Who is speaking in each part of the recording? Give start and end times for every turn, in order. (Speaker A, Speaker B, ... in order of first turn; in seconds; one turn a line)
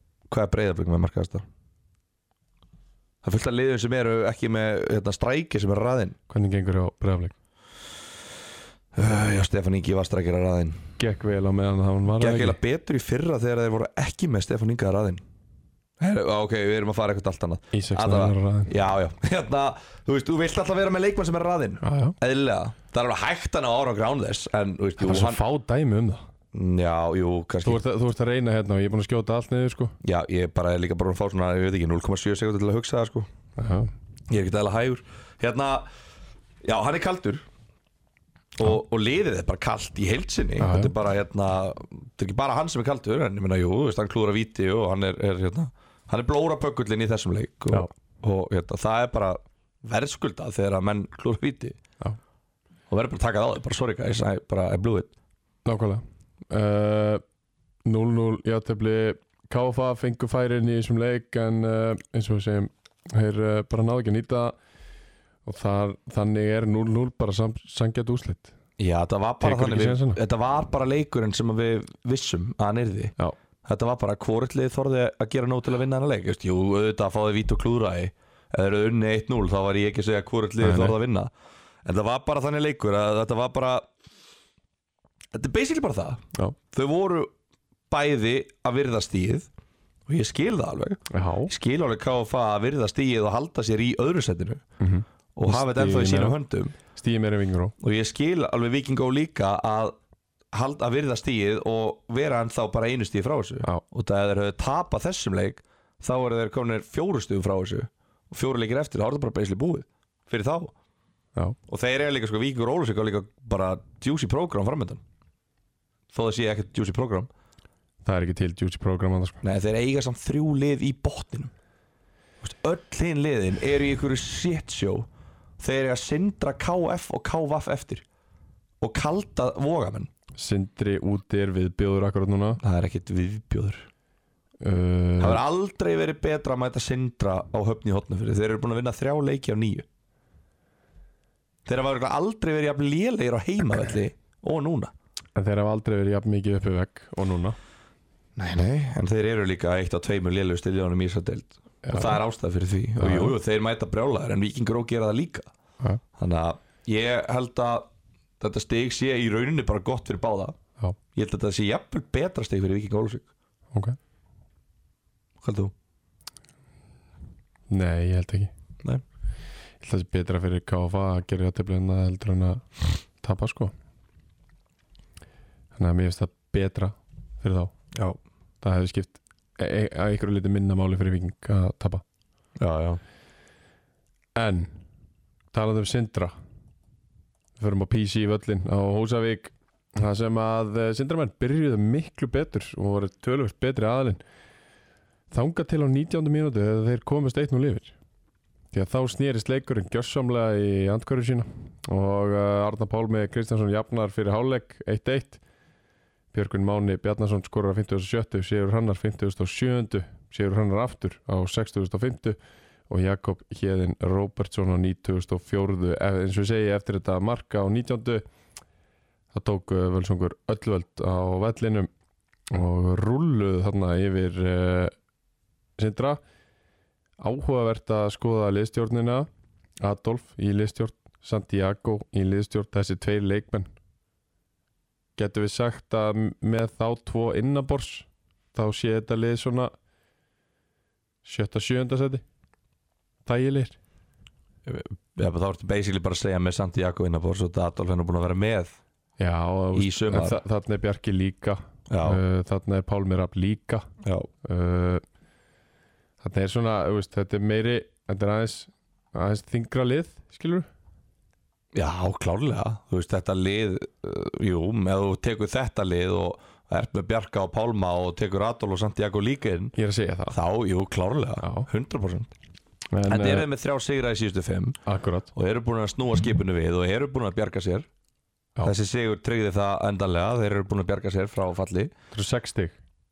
Speaker A: 0.3-1.4
Speaker A: 3.2-6.2
Speaker B: 6.3-7.3
Speaker A: 8.9-10.8
Speaker B: 11.0-12.6
Speaker A: 12.2-15.2
Speaker A: 16.0-25.4
Speaker B: 17.7-18.7
Speaker B: 21.8-22.1
Speaker B: 25.0-26.2
Speaker A: 26.5-27.8
Speaker B: 27.6-30.0
Speaker A: 30.0-33.3
Speaker B: 33.6-33.9
Speaker A: 34.3-35.9
Speaker A: 36.6-37.5
Speaker A: 38.6-51.8
Speaker B: 40.6-40.9
Speaker A: 52.9-55.1
Speaker B: 55.6-57.2
Speaker B: 57.9-64.5
Speaker B: 65.5-68.5
Speaker A: 68.8-73.1
Speaker B: 69.4-70.2
Speaker A: 73.6-81.3
Speaker B: 80.6-81.0
Speaker A: 81.8-83.9
Speaker A: 85.3-87.3
Speaker A: 87.9-89.5
Speaker A: 90.0-94.7
Speaker B: 91.1-91.5
Speaker B: 94.8-96.4
Speaker A: 95.4-96.7
Speaker B: 96.9-97.8
Speaker A: 97.8-100.0
Speaker A: 100.5-110.7
Speaker A: 111.7-115.0
Speaker A: 116.1-117.3
Speaker B: 118.0-119.4
Speaker A: 119.4-121.5
Speaker A: 122.4-125.1
Speaker A: 125.6-128.0
Speaker A: 128.8-130.1
Speaker B: 130.3-132.6
Speaker A: 132.6-133.9
Speaker B: 134.6-135.4
Speaker A: 135.2-139.9
Speaker A: 141.7-144.9
Speaker B: 145.4-147.6
Speaker A: 148.4-155.5
Speaker B: 151.8-152.2
Speaker B: 153.0-153.3
Speaker A: 156.2-157.9
Speaker A: 158.4-160.6
Speaker A: 161.1-163.3
Speaker A: 165.4-165.7
Speaker B: 167.7-168.5
Speaker B: 169.8-172.7
Speaker B: 173.2-173.7
Speaker B: 175.8-177.7
Speaker B: 178.6-182.0
Speaker A: 182.6-183.0
Speaker B: 184.4-184.8
Speaker B: 185.5-186.3
Speaker B: 187.6-194.2
Speaker B: 195.3-197.9
Speaker B: 198.7-205.4
Speaker B: 206.3-212.4
Speaker B: 212.9-218.2
Speaker B: 219.3-221.9
Speaker B: 222.5-224.9
Speaker B: 225.8-226.2
Speaker B: 227.2-229.3
Speaker B: 229.8-233.7
Speaker B: 235.2-239.7
Speaker B: 241.2-242.2
Speaker B: 243.2-243.8
Speaker A: 244.7-248.8
Speaker B: 249.2-253.9
Speaker A: 249.8-250.4
Speaker A: 251.9-252.2
Speaker A: 254.0-254.3
Speaker B: 254.4-255.0
Speaker B: 256.2-260.7
Speaker A: 261.7-269.8
Speaker B: 269.8-270.4
Speaker A: 270.3-272.3
Speaker B: 271.4-271.7
Speaker B: 272.9-273.5
Speaker A: 273.1-274.8
Speaker B: 274.9-275.3
Speaker A: 275.3-277.9
Speaker A: 278.6-281.9
Speaker B: 282.1-282.8